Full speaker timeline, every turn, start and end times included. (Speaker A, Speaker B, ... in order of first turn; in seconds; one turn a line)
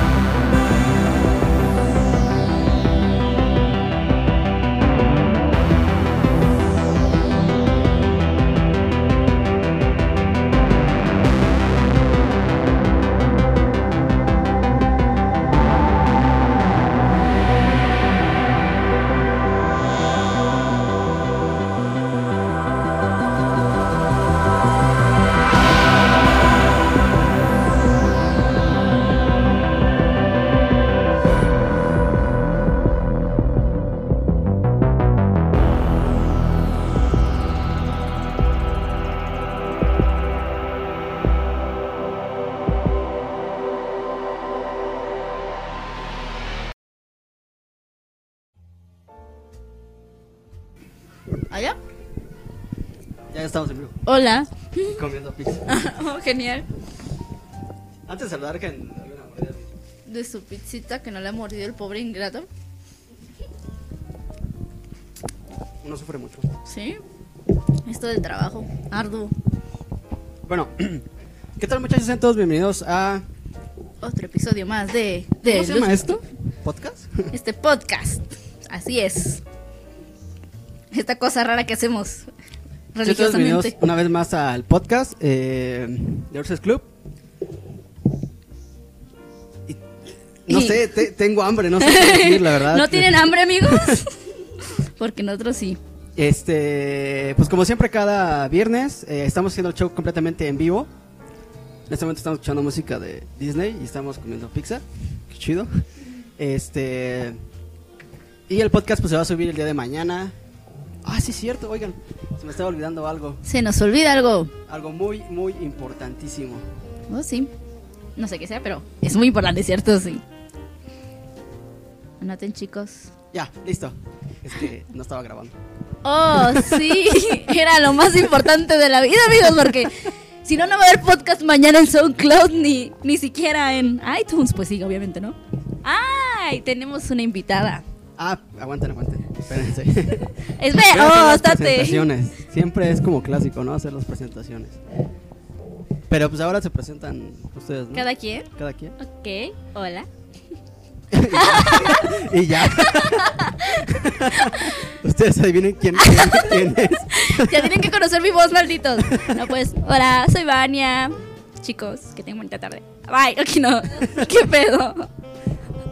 Speaker A: 51.5-51.8
Speaker B: 53.3-54.0
Speaker A: 54.1-55.0
Speaker B: 54.9-55.7
Speaker A: 55.7-56.7
Speaker B: 58.1-59.7
Speaker A: 60.1-62.5
Speaker B: 65.8-66.5
Speaker A: 66.7-67.0
Speaker A: 67.9-69.3
Speaker B: 70.5-71.1
Speaker B: 71.6-73.2
Speaker A: 74.0-76.2
Speaker B: 75.4-77.3
Speaker A: 77.3-79.4
Speaker A: 80.9-82.3
Speaker A: 82.9-83.8
Speaker B: 83.0-86.9
Speaker B: 90.5-94.0
Speaker A: 90.5-91.1
Speaker A: 91.8-95.8
Speaker B: 96.2-100.9
Speaker B: 101.9-105.8
Speaker B: 106.4-107.4
Speaker B: 108.5-110.4
Speaker B: 111.0-113.4
Speaker A: 113.5-114.5
Speaker B: 114.7-116.7
Speaker A: 117.1-117.5
Speaker A: 118.2-120.2
Speaker A: 122.2-123.1
Speaker B: 123.3-125.6
Speaker A: 126.0-137.8
Speaker B: 126.4-126.8
Speaker B: 138.2-144.8
Speaker A: 140.4-142.1
Speaker B: 146.1-149.0
Speaker A: 147.9-150.1
Speaker B: 151.1-157.8
Speaker A: 151.3-154.9
Speaker A: 156.0-165.1
Speaker B: 159.0-159.4